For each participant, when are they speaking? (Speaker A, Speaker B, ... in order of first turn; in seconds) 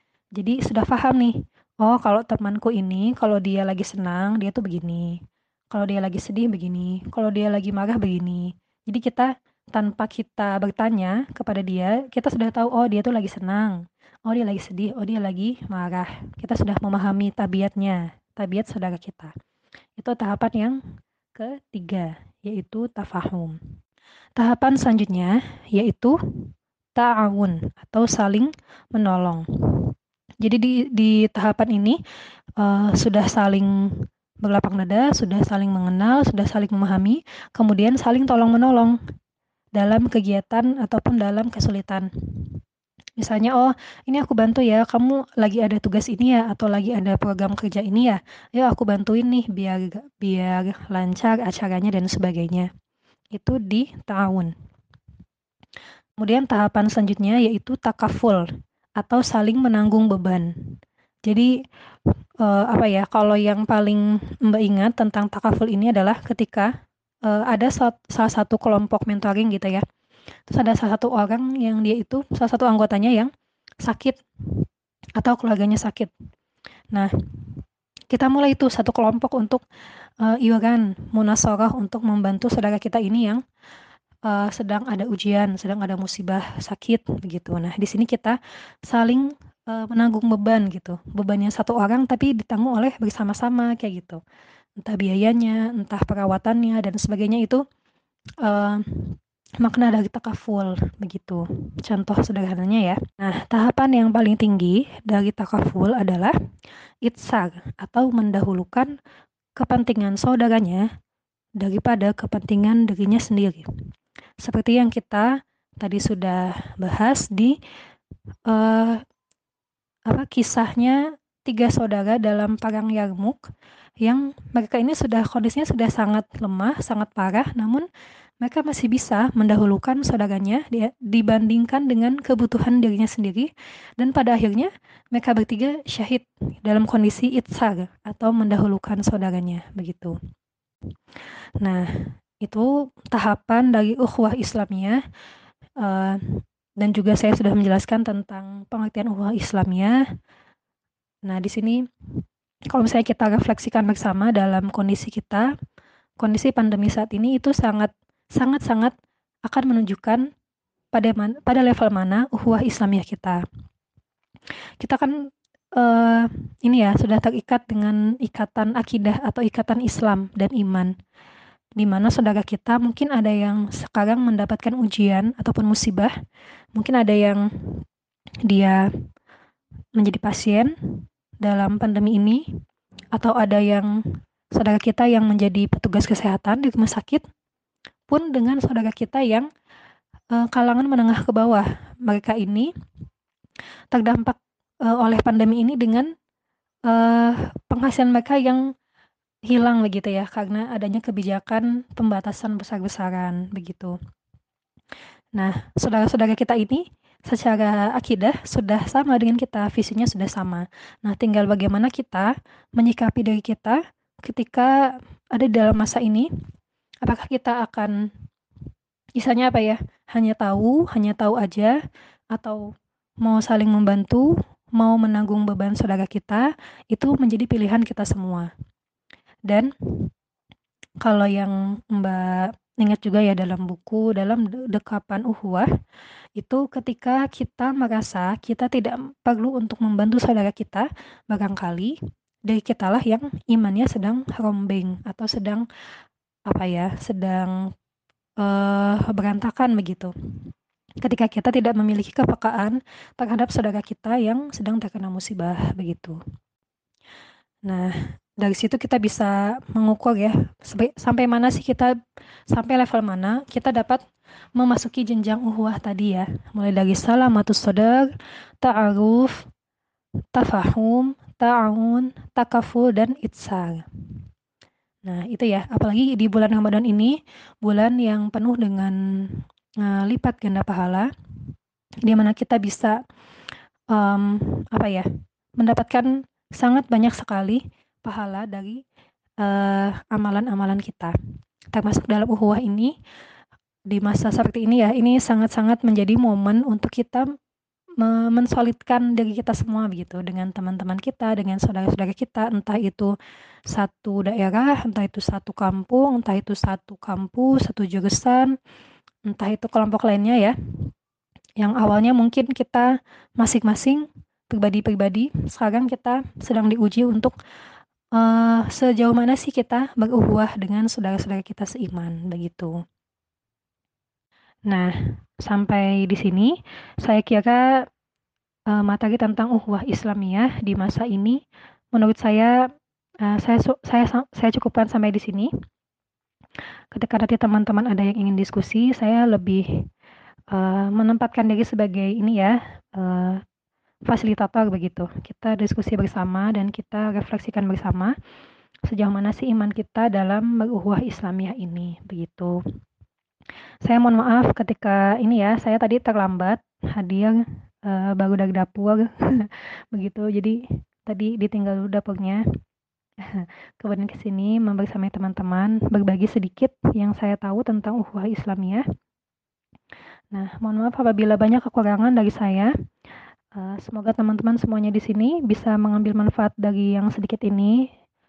Speaker A: 0.3-5.2, 5.7-19.3, 20.0-20.8, 21.3-23.6, 24.4-29.9, 30.4-32.0, 32.6-33.7, 34.4-39.0, 39.8-42.5, 43.2-52.7, 53.3-54.5, 56.2-58.4, 59.0-60.5, 61.2-61.5, 62.4-66.7, 67.2-69.8, 70.5-73.3, 73.8-74.6, 75.2-76.1, 78.1-79.6, 80.2-83.4, 84.2-94.2, 94.8-97.6, 98.4-106.3, 107.0-108.9, 109.6-110.9, 111.6-113.7, 114.4-117.6, 118.5-119.0, 120.1-123.5, 124.0-127.9, 128.4-140.2, 141.6-141.9, 142.4-145.0, 145.8-150.0, 151.2-151.8, 152.7-155.5, 156.2-158.9, 159.5-160.3, 160.9-163.4, 164.8-165.1, 165.8-170.9, 171.8-176.1, 176.8-177.5, 178.5-178.8, 180.0-180.7, 181.4-182.4, 183.1-184.0, 184.5-187.2, 188.1-189.5, 190.3-192.7, 193.9-196.1, 196.9-198.7, 199.5-204.0, 205.3-214.8, 215.3-216.3, 217.0-218.1, 219.2-221.8, 222.3-222.6, 223.2-228.5, 229.5-230.1, 231.0-235.7, 236.4-242.0, 242.5-245.7, 246.5-247.6, 248.4-250.1, 251.0-256.2, 257.6-261.9, 262.5-264.0, 264.6-269.4, 270.3-273.9, 275.0-281.1, 282.0-283.0, 283.9-285.0, 285.6-288.8, 289.4-291.1, 291.7-293.0, 293.9-297.3, 298.0-303.1, 303.7-308.5, 309.2-310.5, 311.6-317.3, 318.1-322.8, 324.7-327.8, 328.7-331.4, 331.9-332.6, 333.2-335.5, 336.9-339.8, 340.5-343.4, 344.1-348.1, 348.9-352.6, 353.8-362.4, 363.2-368.8, 370.3-372.7, 373.5-377.9